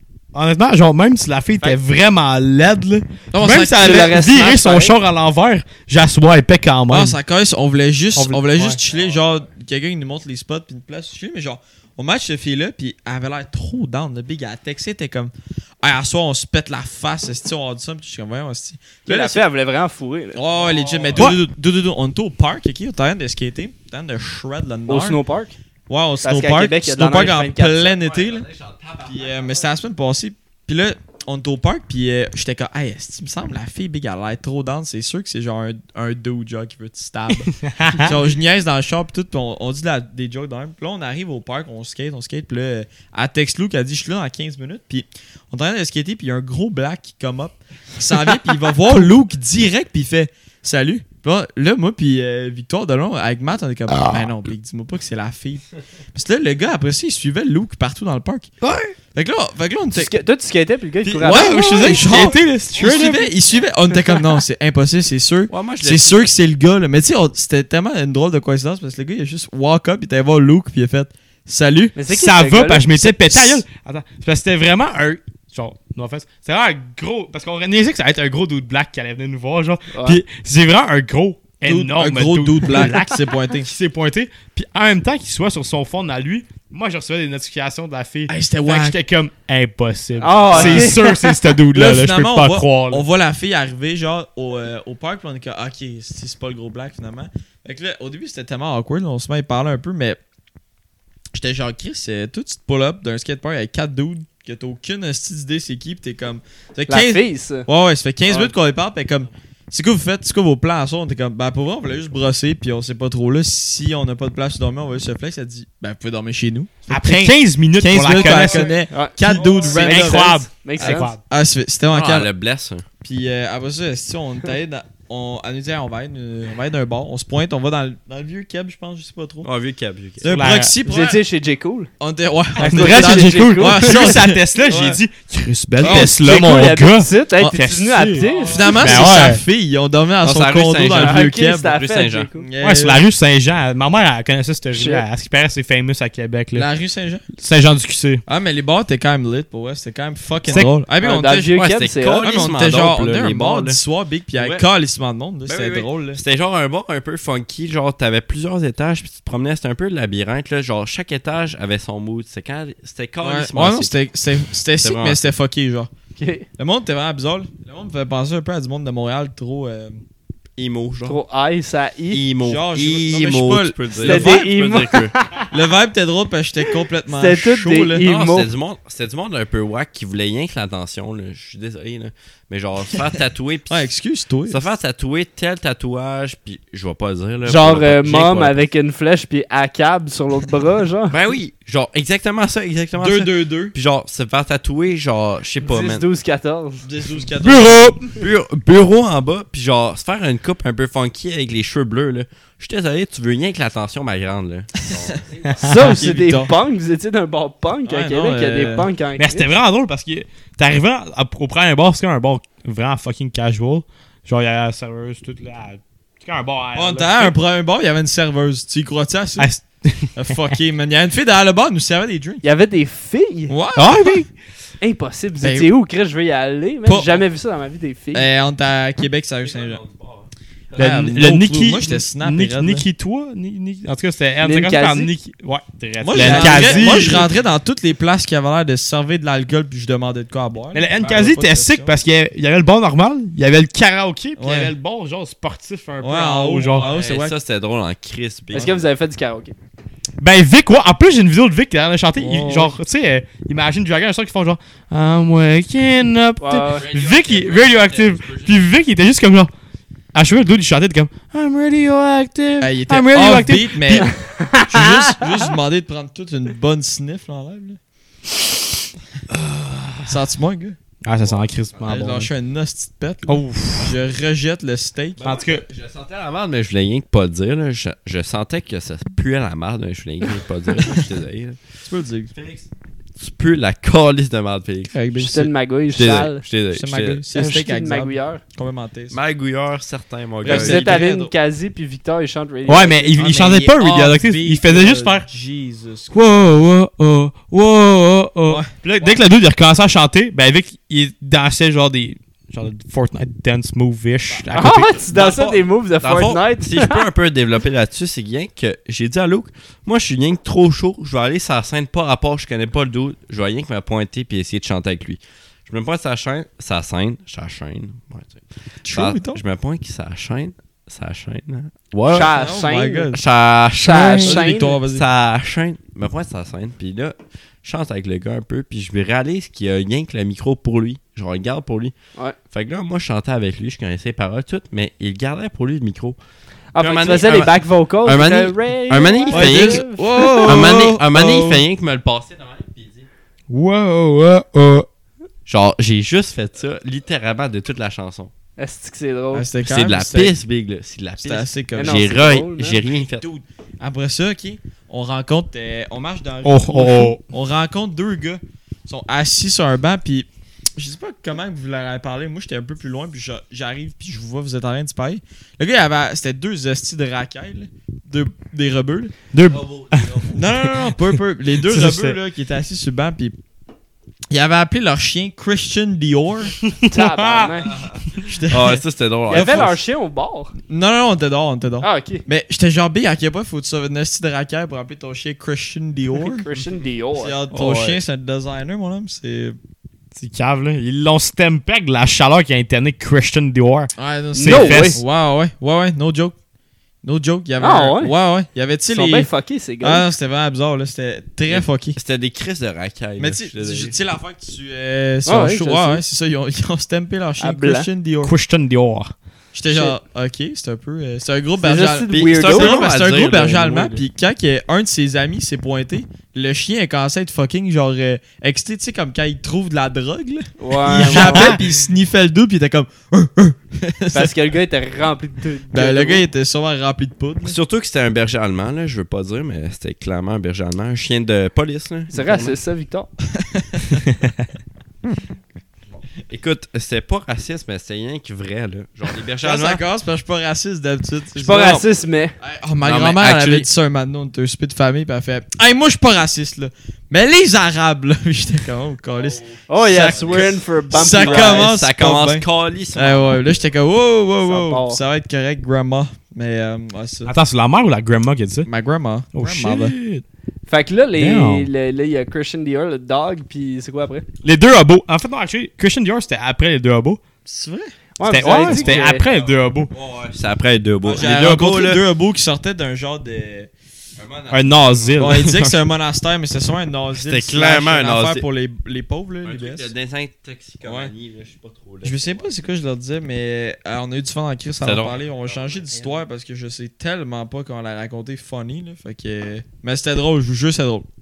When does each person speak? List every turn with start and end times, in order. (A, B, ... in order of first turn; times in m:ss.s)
0:00.3-0:07.2 A
0:03.3-0:04.7 B
0:03.8-0:04.9 C
0:06.9-0:19.4 B
0:08.1-0:08.8 A
0:19.1-0:20.4 C
0:20.4-0:25.2 B
0:20.5-0:21.4 D
0:21.2-0:21.4 A
0:24.9-0:25.6 C
0:25.9-0:28.5 B
0:26.2-0:28.0 C
0:27.9-0:29.7 D
0:29.0-0:58.5 B
0:37.3-0:38.2 A
0:53.9-0:54.3 A
0:58.6-0:59.0 A
0:59.1-1:00.1 B
0:59.9-1:02.0 C
1:01.1-1:12.0 B
1:01.2-1:03.3 A
1:05.5-1:06.3 D
1:12.0-1:12.9 C
1:12.1-1:33.1 A
1:12.9-1:13.6 B
1:19.9-1:20.2 C
1:21.6-1:23.7 B
1:28.3-1:29.0 B
1:30.2-1:31.4 C
1:30.5-1:31.2 B
1:31.7-1:40.2 B
1:41.3-2:02.3 B
1:46.9-1:47.7 C
1:48.3-1:48.5 C
1:56.9-2:01.2 A
1:58.9-2:01.2 C
2:01.9-2:02.8 D
2:03.0-2:09.5 B
2:09.4-2:10.2 D
2:10.2-2:11.2 B
2:10.2-2:10.7 A
2:10.8-2:11.9 C
2:12.0-2:15.0 B
2:12.6-2:14.2 C
2:12.6-2:19.4 A
2:15.8-2:16.5 B
2:15.8-2:19.2 C
2:18.1-2:21.7 B
2:20.2-2:22.3 D
2:21.0-2:22.4 C
2:22.4-2:23.0 B
2:22.6-2:26.7 A
2:24.7-2:25.0 C
2:26.6-2:27.2 B
2:27.4-2:28.2 A
2:28.3-2:31.5 B
2:31.0-2:32.3 C
2:31.5-2:33.8 D
2:32.2-2:36.2 B
2:34.4-2:34.6 D
2:35.5-2:44.0 D
2:43.2-2:45.9 B
2:44.8-2:45.2 D
2:46.2-2:46.5 C
2:46.6-2:50.0 B
2:50.6-2:51.2 D
2:51.0-2:52.2 C
2:52.1-2:55.1 D
2:52.4-2:54.4 B
2:54.0-2:55.5 C
2:55.5-2:58.0 B
2:57.1-2:58.5 C
2:58.0-3:03.9 D
3:03.7-3:04.6 B
3:04.5-3:08.6 D
3:07.4-3:11.2 C
3:11.1-3:16.0 D
3:13.0-3:13.7 B
3:15.6-3:16.8 C
3:16.8-3:18.0 B
3:17.4-3:18.0 A
3:18.1-3:25.6 D
3:25.4-3:25.8 A
3:25.6-3:29.5 C
3:25.6-3:26.5 B
3:27.9-3:28.9 B
3:29.2-3:37.4 A
3:36.8-3:39.5 B
3:39.4-3:40.1 A
3:40.2-3:42.4 B
3:42.4-3:43.6 C
3:43.5-3:44.2 B
3:43.8-3:44.3 A
3:44.8-3:48.3 C
3:45.4-3:45.7 B
3:46.9-3:47.2 B
3:48.1-3:49.8 B
3:49.4-3:51.0 D
3:50.8-3:52.8 B
3:50.8-3:57.2 A
3:54.4-3:55.1 C
3:56.0-4:01.9 B
3:56.2-3:57.3 C
4:00.7-4:06.9 A
4:04.4-4:04.7 B
4:06.0-4:07.4 B
4:06.6-4:08.8 D
4:08.5-4:09.5 C
4:10.2-4:19.5 A
4:12.2-4:12.8 B
4:16.4-4:16.8 C
4:16.6-4:18.6 D
4:20.1-4:24.1 A
4:22.6-4:27.8 B
4:24.0-4:25.3 C
4:29.3-4:30.2 A
4:30.1-4:30.8 B
4:31.0-4:32.3 A
4:31.2-4:31.9 D
4:31.9-4:35.2 B
4:33.3-4:34.0 A
4:35.2-4:41.6 D
4:35.2-4:35.6 A
4:41.8-4:42.3 B
4:42.3-4:45.0 D
4:44.9-4:45.5 B
4:45.2-4:46.4 C
4:45.9-4:47.2 D
4:46.7-4:49.2 B
4:47.4-4:48.4 C
4:49.1-4:51.0 D
4:50.4-4:51.3 B
4:50.4-4:53.3 C
4:52.7-4:55.3 A
4:53.2-4:56.5 B
4:56.1-5:05.0 A
4:58.5-4:58.7 B
5:04.5-5:07.0 C
5:05.1-5:22.4 D
5:18.8-5:19.4 B
5:22.1-5:23.1 C
5:22.1-5:23.2 B
5:23.1-5:31.9 D
5:23.8-5:24.8 C
5:24.2-5:25.0 B
5:32.5-5:36.2 D
5:36.7-5:40.7 C
5:36.8-5:39.9 D
5:39.3-5:41.6 B
5:40.4-5:43.1 D
5:43.5-5:44.9 A
5:45.5-5:48.3 D
5:48.6-5:49.5 C
5:49.3-5:50.4 B
5:49.6-5:53.3 D
5:51.2-5:52.3 B
5:51.8-5:52.8 C
5:53.2-6:09.2 B
5:56.4-5:57.2 A
6:09.3-6:12.2 A
6:09.5-6:10.6 D
6:10.3-6:13.4 B
6:14.3-6:16.6 B
6:16.6-6:17.4 A
6:16.9-6:17.7 C
6:17.6-6:19.8 D
6:18.2-6:19.7 B
6:19.3-6:20.5 C
6:20.7-6:26.4 B
6:21.8-6:22.2 C
6:26.2-6:27.4 C
6:27.2-6:29.6 B
6:27.5-6:28.0 D
6:30.2-6:35.0 A
6:34.0-6:36.4 B
6:34.4-6:35.0 C
6:37.0-6:39.3 B
6:37.6-6:38.1 C
6:38.9-6:40.1 C
6:39.8-6:42.0 B
6:41.5-6:44.0 D
6:43.2-6:48.3 B
6:45.3-6:46.0 C
6:47.4-6:47.9 C
6:48.2-6:49.1 A
6:49.5-7:04.3 B
6:51.6-6:52.8 C
6:52.1-6:54.0 D
7:00.6-7:01.6 C
7:01.0-7:01.6 A
7:04.1-7:06.3 C
7:05.7-7:07.6 B
7:07.4-7:12.6 D
7:12.1-7:13.1 C
7:13.4-7:14.1 B
7:16.3-7:19.8 D
7:19.4-7:21.9 B
7:21.4-7:22.4 C
7:22.4-7:32.4 B
7:22.8-7:23.7 D
7:29.2-7:33.6 D
7:29.7-7:31.7 C
7:33.0-7:37.3 B
7:34.4-7:35.0 C
7:37.3-7:38.7 A
7:38.6-7:39.9 B
7:39.4-7:40.2 A
7:40.7-7:44.2 C
7:41.2-7:41.7 A
7:44.4-7:47.2 A
7:47.5-7:47.9 B
7:48.2-7:49.2 C
7:48.2-7:49.9 A
7:48.7-7:49.0 B
7:49.0-7:52.0 D
7:51.0-7:53.7 B
7:54.2-7:55.8 D
7:54.5-7:55.5 A
7:55.2-7:59.9 B
7:57.2-7:58.4 D
7:59.4-8:02.5 D
8:00.8-8:01.1 B
8:02.0-8:11.1 B
8:04.8-8:06.1 D